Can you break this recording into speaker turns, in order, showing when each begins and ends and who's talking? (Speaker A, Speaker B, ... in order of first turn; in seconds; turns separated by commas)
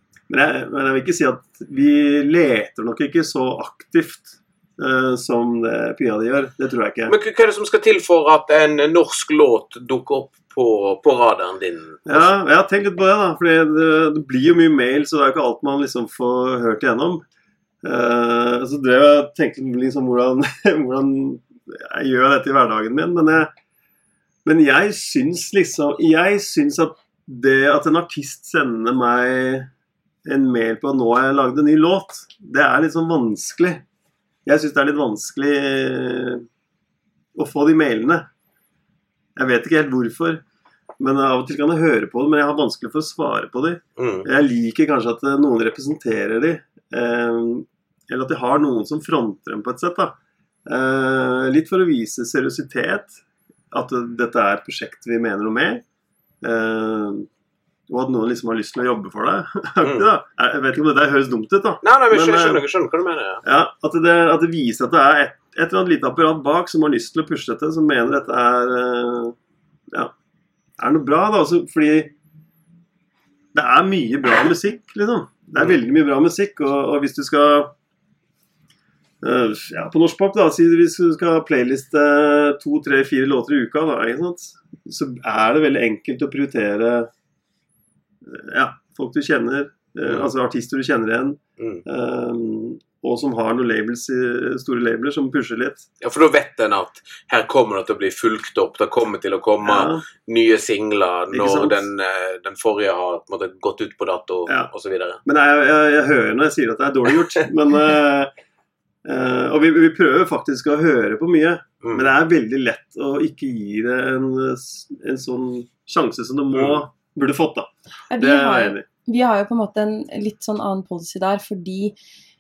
Speaker A: 0.3-7.2, Speaker B: 7.1-12.3, Speaker A: 12.1-17.2, Speaker A: 17.8-23.5, Speaker A: 24.4-29.7, Speaker A: 30.2-33.8, Speaker A: 34.5-36.5, Speaker A: 37.4-38.3, Speaker A: 39.4-40.4, Speaker A: 41.0-53.2, Speaker B: 44.0-44.3, Speaker A: 53.7-55.8, Speaker A: 56.4-57.3, Speaker A: 57.9-62.6, Speaker B: 59.8-60.1, Speaker B: 61.8-63.4, Speaker A: 63.4-69.4, Speaker A: 70.8-72.1, Speaker A: 73.5-77.7, Speaker A: 79.2-87.1, Speaker A: 88.2-95.9, Speaker B: 90.1-90.3, Speaker B: 91.6-91.8, Speaker B: 96.0-105.2, Speaker A: 99.6-100.0, Speaker A: 101.3-101.8, Speaker A: 105.2-108.3, Speaker A: 109.0-118.9, Speaker B: 111.8-112.1, Speaker B: 116.5-116.8, Speaker C: 118.1-122.0